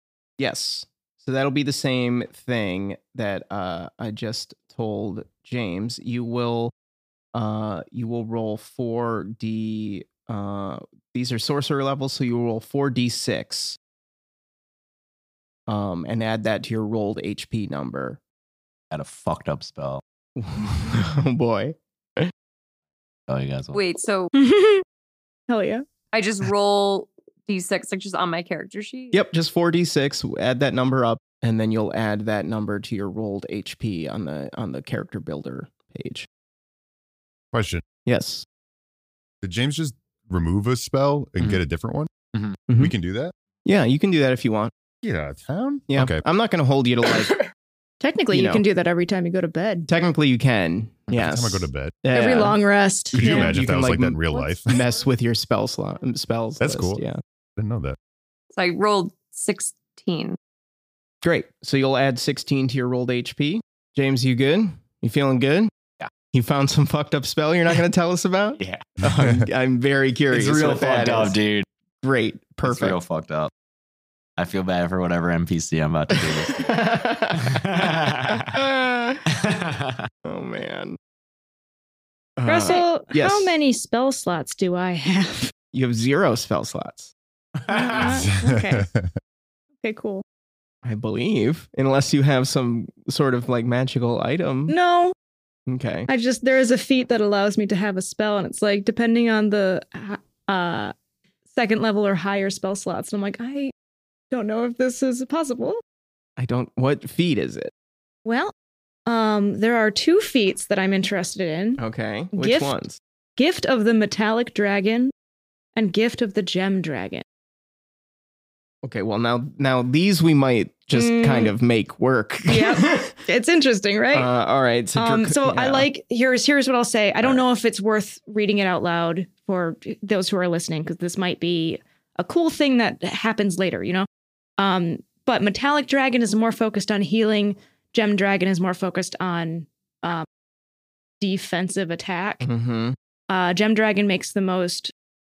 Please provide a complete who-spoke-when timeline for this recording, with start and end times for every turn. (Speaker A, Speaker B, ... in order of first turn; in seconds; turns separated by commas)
Speaker A: 0.4-6.7, Speaker A: 7.3-13.8, Speaker A: 15.7-18.2, Speaker B: 18.9-20.0, Speaker A: 20.4-22.3, Speaker B: 23.3-23.8, Speaker C: 23.7-24.3, Speaker D: 24.3-24.8, Speaker D: 25.5-25.8, Speaker C: 26.1-29.2, Speaker A: 29.1-36.3, Speaker E: 37.5-37.8, Speaker A: 38.0-38.5, Speaker E: 39.4-42.1, Speaker A: 42.7-42.9, Speaker E: 42.8-43.3, Speaker A: 43.6-44.7, Speaker E: 45.0-46.2, Speaker A: 45.9-47.4, Speaker D: 48.0-49.9, Speaker A: 48.3-48.6, Speaker A: 49.9-52.6, Speaker E: 51.1-52.0, Speaker D: 52.1-53.5, Speaker A: 53.1-57.2, Speaker E: 53.1-54.8, Speaker E: 56.6-57.0, Speaker E: 57.6-58.0, Speaker C: 58.5-60.4, Speaker A: 61.2-65.7, Speaker A: 66.3-71.4, Speaker B: 68.6-68.8, Speaker B: 70.3-71.7, Speaker A: 72.0-73.0, Speaker B: 72.6-73.5, Speaker B: 74.4-78.6, Speaker A: 76.5-79.2, Speaker B: 79.3-80.1, Speaker A: 80.2-81.0, Speaker A: 82.4-83.6, Speaker D: 82.5-85.5, Speaker A: 85.7-87.1, Speaker D: 87.7-88.8, Speaker E: 88.0-89.1, Speaker D: 89.8-90.2, Speaker A: 90.8-94.7, Speaker D: 94.7-95.1, Speaker A: 95.7-96.1, Speaker D: 96.1-100.9, Speaker D: 101.5-103.7, Speaker D: 104.3-105.8, Speaker A: 106.4-107.7, Speaker D: 108.2-108.5, Speaker D: 109.1-111.8, Speaker A: 111.8-113.0, Speaker D: 112.3-112.8, Speaker D: 113.4-115.1, Speaker D: 115.8-117.2, Speaker A: 118.8-123.1, Speaker D: 120.9-121.5, Speaker D: 122.5-124.3, Speaker A: 124.1-125.9, Speaker D: 125.0-134.1, Speaker D: 134.6-140.2, Speaker D: 141.2-142.4, Speaker A: 142.4-142.9, Speaker D: 143.3-144.9